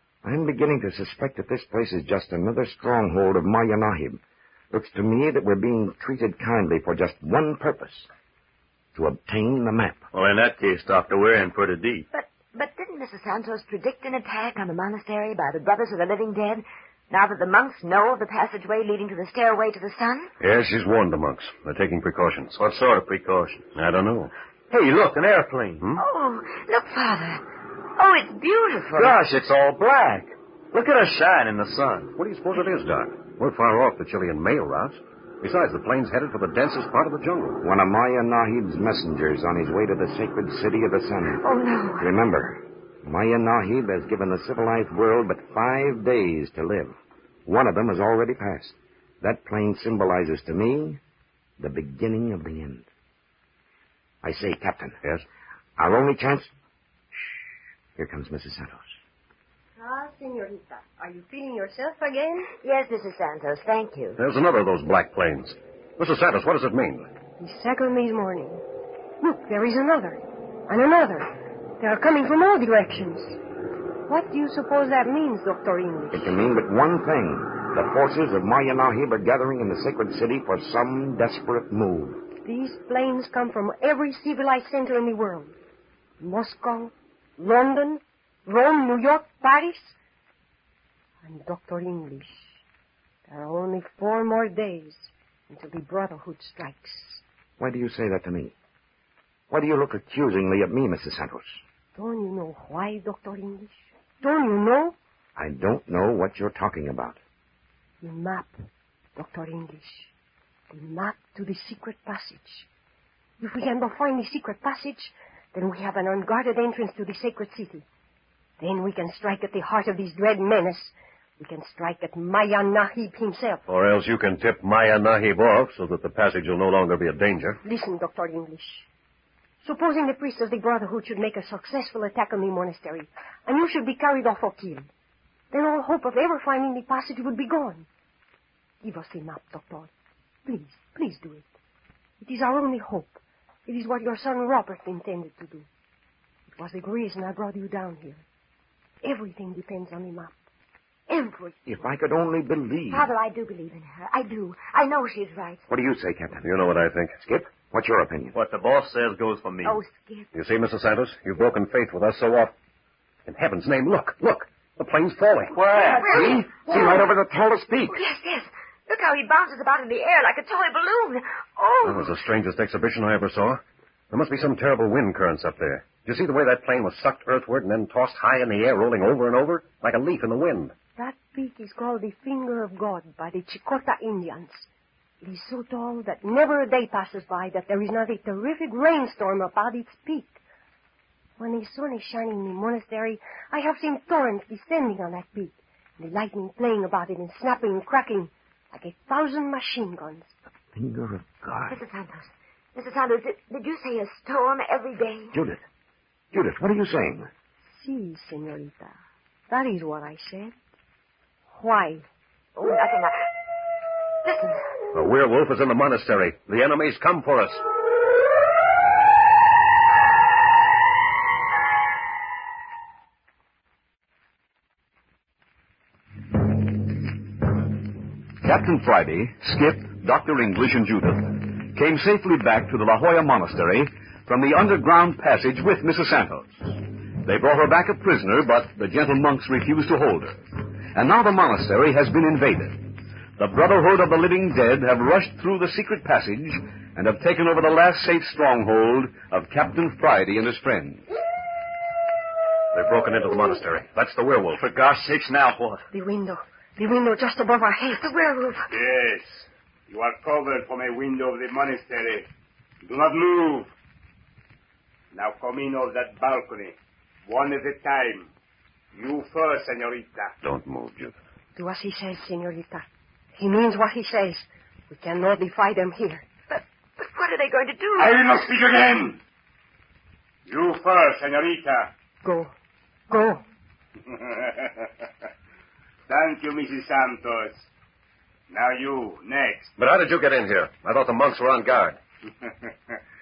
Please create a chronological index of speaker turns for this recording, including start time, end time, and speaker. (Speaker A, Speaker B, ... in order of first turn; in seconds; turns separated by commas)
Speaker A: 0.2-4.2, Speaker A: 4.7-8.1, Speaker A: 8.9-10.0, Speaker B: 10.1-12.1, Speaker C: 12.1-20.3, Speaker D: 20.4-22.6, Speaker B: 22.6-23.7, Speaker D: 23.7-24.3, Speaker B: 24.7-25.8, Speaker C: 26.0-27.4, Speaker C: 28.0-29.1, Speaker B: 28.9-32.1, Speaker D: 32.1-37.6, Speaker A: 37.6-41.4, Speaker C: 41.4-42.1, Speaker A: 42.0-46.9, Speaker A: 47.5-51.0, Speaker A: 51.6-52.9, Speaker A: 54.2-55.0, Speaker A: 55.8-56.5, Speaker A: 58.0-58.9, Speaker E: 59.8-62.5, Speaker C: 62.6-64.2, Speaker D: 64.2-67.1, Speaker E: 67.4-68.6, Speaker E: 69.2-73.4, Speaker E: 74.1-76.4, Speaker A: 76.1-82.2, Speaker E: 82.4-85.5, Speaker E: 86.2-90.0, Speaker E: 91.2-92.6, Speaker E: 93.3-97.2, Speaker A: 97.6-98.5, Speaker A: 99.5-101.6, Speaker E: 102.0-105.0, Speaker A: 105.3-107.2, Speaker E: 108.0-108.5, Speaker E: 109.2-110.1, Speaker E: 110.7-112.7, Speaker E: 113.4-117.8, Speaker E: 118.6-123.6, Speaker D: 123.7-127.6, Speaker E: 127.6-128.9, Speaker E: 129.6-134.9, Speaker E: 135.5-137.9, Speaker E: 138.8-139.9, Speaker E: 140.4-141.5, Speaker E: 142.2-145.7, Speaker E: 146.5-148.2, Speaker E: 149.0-150.3, Speaker E: 151.1-151.5, Speaker A: 151.7-153.1, Speaker C: 152.9-155.7, Speaker A: 155.7-156.5, Speaker D: 156.4-157.2, Speaker A: 157.2-158.3, Speaker B: 158.3-159.8, Speaker C: 159.6-160.3, Speaker D: 160.3-162.5, Speaker D: 163.2-165.6, Speaker B: 165.5-166.1, Speaker C: 165.8-167.1, Speaker A: 166.0-168.0, Speaker C: 167.9-172.2, Speaker D: 171.8-180.7, Speaker E: 181.0-184.7, Speaker E: 185.2-190.4, Speaker E: 191.4-200.3, Speaker A: 200.7-201.8, Speaker C: 201.7-205.4, Speaker A: 205.3-205.6, Speaker A: 206.3-207.3, Speaker E: 207.7-209.0, Speaker E: 209.5-210.5, Speaker E: 211.5-212.0, Speaker C: 212.6-213.2, Speaker C: 214.2-214.6, Speaker D: 214.9-217.6, Speaker F: 228.4-251.0, Speaker D: 252.7-254.6, Speaker B: 254.6-255.8, Speaker E: 255.9-258.1, Speaker C: 258.0-258.7, Speaker G: 258.7-262.3, Speaker G: 262.8-263.7, Speaker G: 265.1-268.3, Speaker G: 268.9-270.4, Speaker D: 270.4-271.1, Speaker E: 271.6-276.2, Speaker C: 277.0-278.3, Speaker G: 278.0-279.2, Speaker G: 280.4-281.9, Speaker E: 282.2-282.5, Speaker E: 283.1-283.4, Speaker G: 284.0-284.9, Speaker G: 286.1-287.7, Speaker G: 288.5-289.8, Speaker D: 289.8-292.0, Speaker G: 292.4-293.0